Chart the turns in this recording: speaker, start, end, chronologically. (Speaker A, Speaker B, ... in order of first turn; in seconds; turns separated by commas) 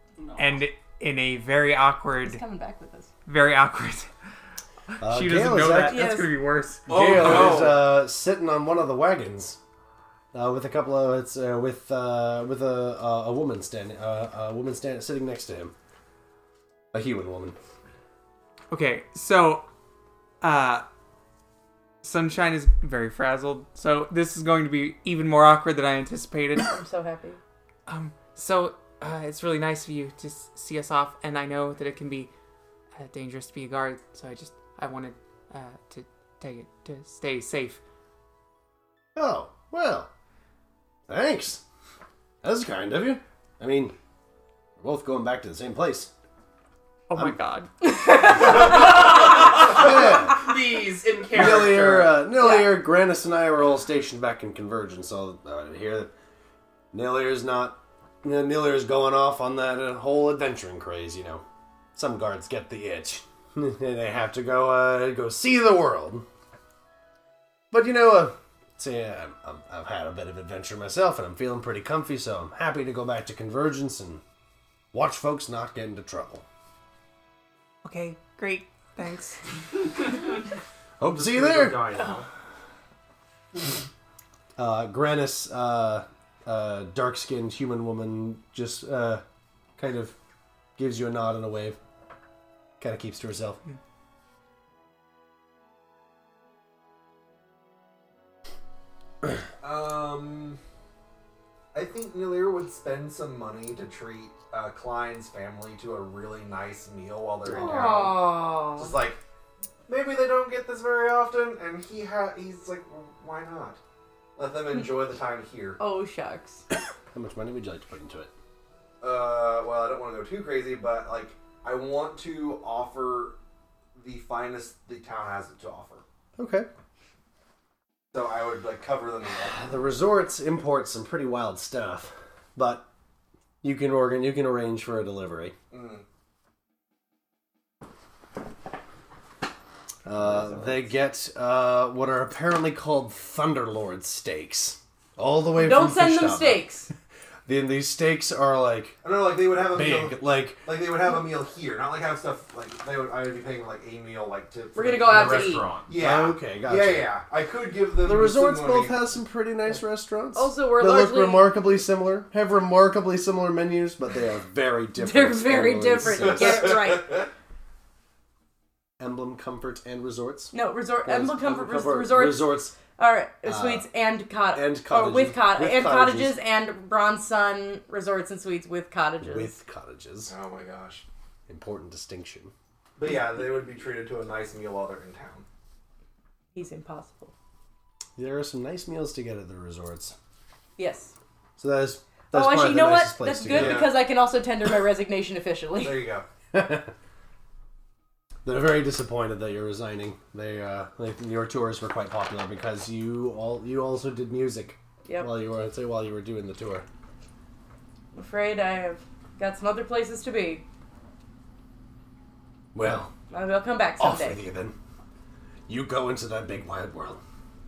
Speaker A: 0.2-0.6, Speaker B: 0.4-2.4, Speaker C: 2.2-3.1, Speaker B: 3.2-4.1, Speaker B: 4.9-6.9, Speaker D: 5.0-6.1, Speaker C: 5.9-6.3, Speaker E: 6.9-7.9, Speaker D: 6.9-9.6, Speaker D: 10.3-15.7, Speaker D: 16.9-17.6, Speaker B: 18.7-19.6, Speaker B: 20.4-20.8, Speaker B: 22.0-26.8, Speaker C: 26.7-27.4, Speaker B: 27.9-32.3, Speaker B: 33.0-37.8, Speaker D: 39.1-40.1, Speaker D: 41.1-41.6, Speaker D: 42.4-44.0, Speaker D: 44.8-46.1, Speaker B: 47.1-48.4, Speaker C: 47.8-49.0, Speaker A: 48.6-52.1, Speaker D: 49.7-50.5, Speaker D: 51.3-56.1, Speaker C: 52.4-52.7, Speaker D: 56.9-61.4, Speaker D: 61.9-66.2, Speaker D: 67.7-74.2, Speaker D: 74.9-76.4, Speaker B: 77.8-79.4, Speaker D: 81.0-82.0, Speaker E: 81.1-82.2, Speaker D: 84.5-89.2, Speaker D: 89.8-90.2, Speaker D: 90.8-91.8, Speaker D: 92.8-93.6, Speaker F: 99.6-100.6, Speaker F: 101.7-109.2, Speaker C: 107.5-109.0, Speaker D: 107.5-107.9, Speaker F: 109.9-113.8, Speaker F: 114.3-115.8, Speaker C: 115.8-116.6, Speaker D: 117.1-118.3, Speaker F: 119.0-123.4, Speaker F: 124.0-126.0, Speaker D: 126.4-126.7, Speaker F: 128.1-129.7, Speaker D: 129.5-132.9, Speaker D: 133.6-135.5, Speaker F: 135.7-136.0, Speaker D: 140.0-146.7, Speaker F: 140.1-140.9, Speaker C: 145.5-146.9, Speaker D: 147.4-149.0, Speaker F: 149.0-159.0, Speaker D: 149.7-150.8, Speaker C: 154.7-155.7, Speaker E: 154.9-155.9, Speaker D: 155.9-157.1, Speaker D: 158.0-166.9, Speaker C: 160.3-161.5, Speaker C: 165.0-167.3, Speaker F: 166.2-167.2, Speaker D: 169.0-172.8, Speaker C: 170.5-179.6, Speaker D: 173.4-173.9, Speaker D: 174.5-176.4, Speaker D: 179.2-180.3, Speaker F: 180.3-181.0, Speaker D: 181.5-182.5, Speaker F: 183.0-185.4, Speaker C: 186.5-187.3, Speaker D: 188.2-190.2, Speaker C: 190.8-191.1, Speaker D: 191.6-193.9, Speaker C: 192.3-196.1, Speaker F: 193.5-194.0, Speaker F: 195.8-196.2, Speaker D: 196.5-196.9, Speaker D: 198.4-206.8, Speaker C: 205.0-205.3, Speaker C: 208.1-210.6, Speaker D: 212.7-213.1, Speaker C: 213.3-214.4, Speaker D: 214.0-214.8, Speaker D: 215.7-217.2